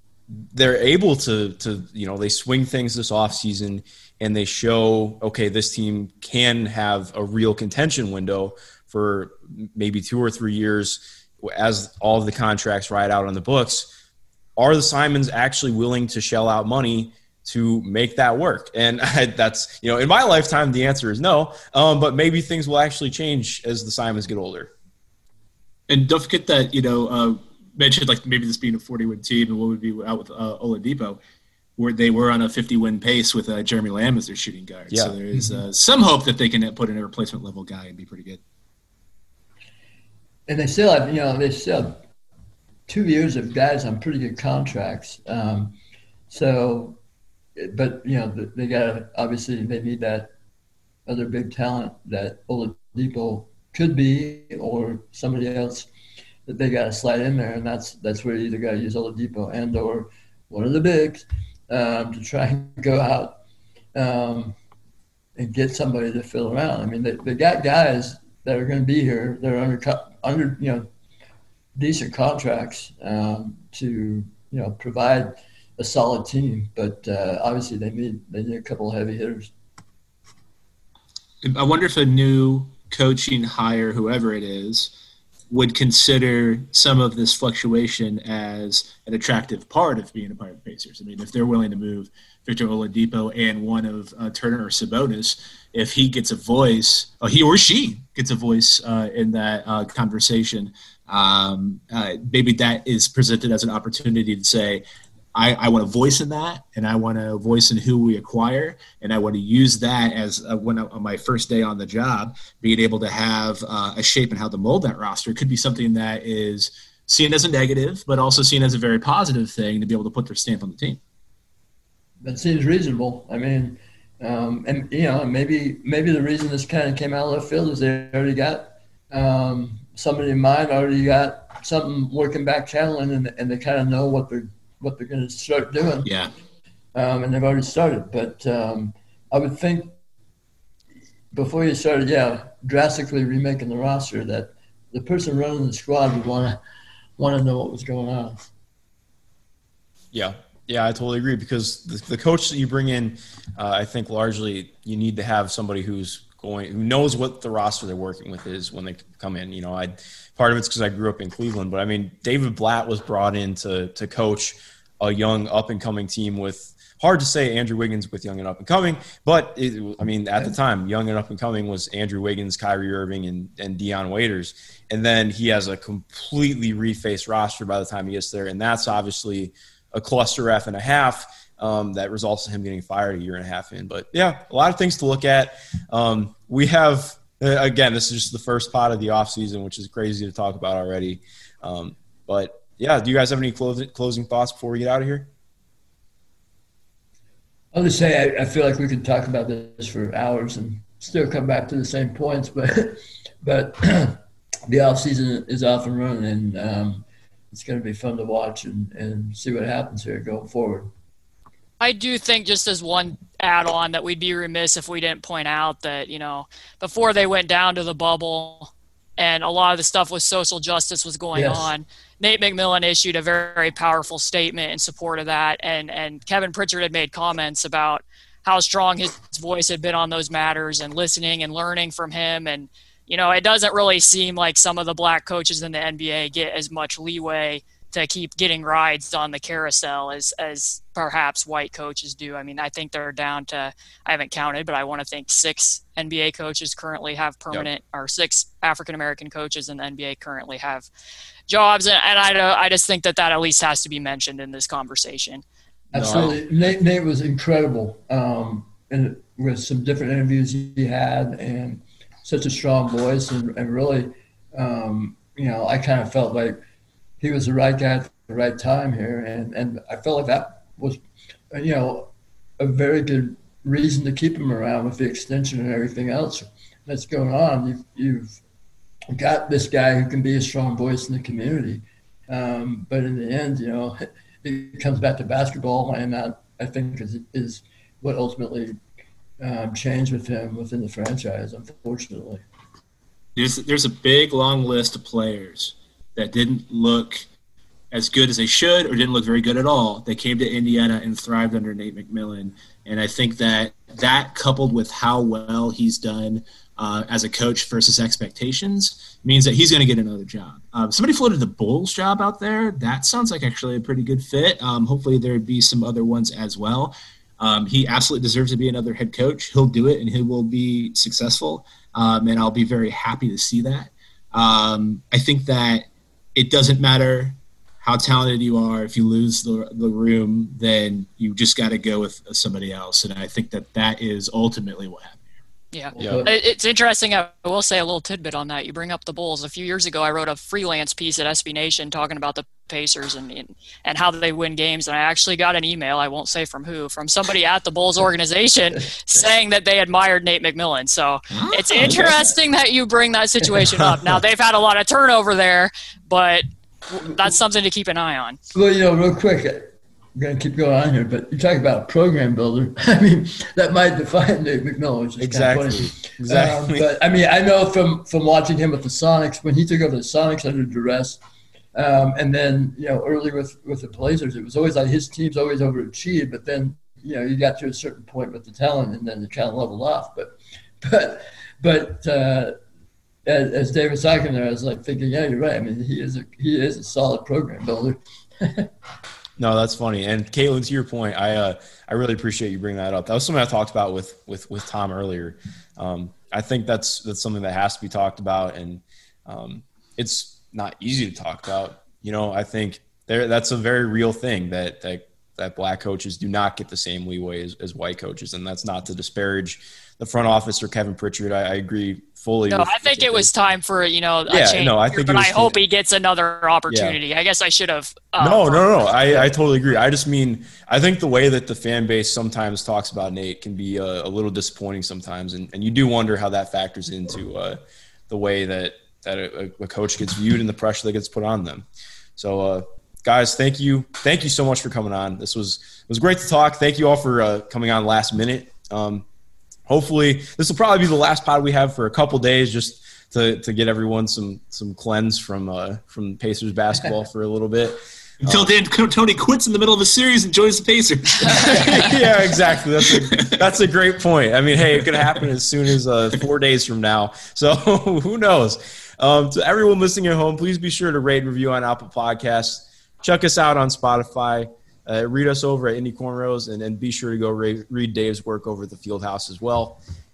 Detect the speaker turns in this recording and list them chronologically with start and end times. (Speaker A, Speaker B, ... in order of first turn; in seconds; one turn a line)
Speaker A: 0.5-13.9
Speaker A: 14.6-24.7
Speaker B: 25.9-31.2
Speaker B: 31.8-38.4
Speaker A: 34.9-35.2
Speaker C: 35.3-35.6
Speaker C: 40.5-42.0
Speaker C: 42.9-45.8
Speaker C: 46.3-47.0
Speaker C: 47.6-50.3
Speaker C: 51.1-55.9
Speaker C: 56.5-63.4
Speaker C: 64.0-64.5
Speaker C: 65.4-70.9
Speaker C: 71.8-79.5
Speaker B: 81.4-84.9
Speaker B: 85.5-121.0
Speaker C: 122.2-136.1
Speaker B: 136.1-136.3
Speaker C: 136.9-140.0
Speaker C: 141.3-146.6
Speaker C: 147.2-148.4
Speaker A: 150.1-195.3
Speaker C: 197.7-210.9
Speaker D: 211.8-250.9
Speaker C: 221.3-221.7
Speaker D: 251.5-255.4
Speaker C: 255.9-266.6
Speaker A: 255.9-256.4
Speaker C: 267.2-271.0
Speaker C: 271.5-278.4
Speaker C: 279.1-288.8
Speaker C: 289.4-292.4
Speaker B: 293.4-297.2
Speaker B: 297.9-335.2
Speaker D: 335.7-358.4
Speaker A: 335.9-336.3
Speaker C: 335.9-336.3
Speaker B: 351.3-352.3
Speaker C: 351.8-352.2
Speaker C: 358.5-371.2
Speaker A: 365.2-366.9
Speaker C: 371.7-382.6
Speaker C: 383.3-388.7
Speaker A: 389.4-413.3
Speaker D: 412.5-419.3
Speaker A: 414.3-415.6
Speaker A: 416.7-417.0
Speaker A: 418.2-439.1
Speaker A: 439.7-448.5
Speaker B: 448.2-452.1
Speaker A: 451.3-469.8
Speaker B: 452.9-453.4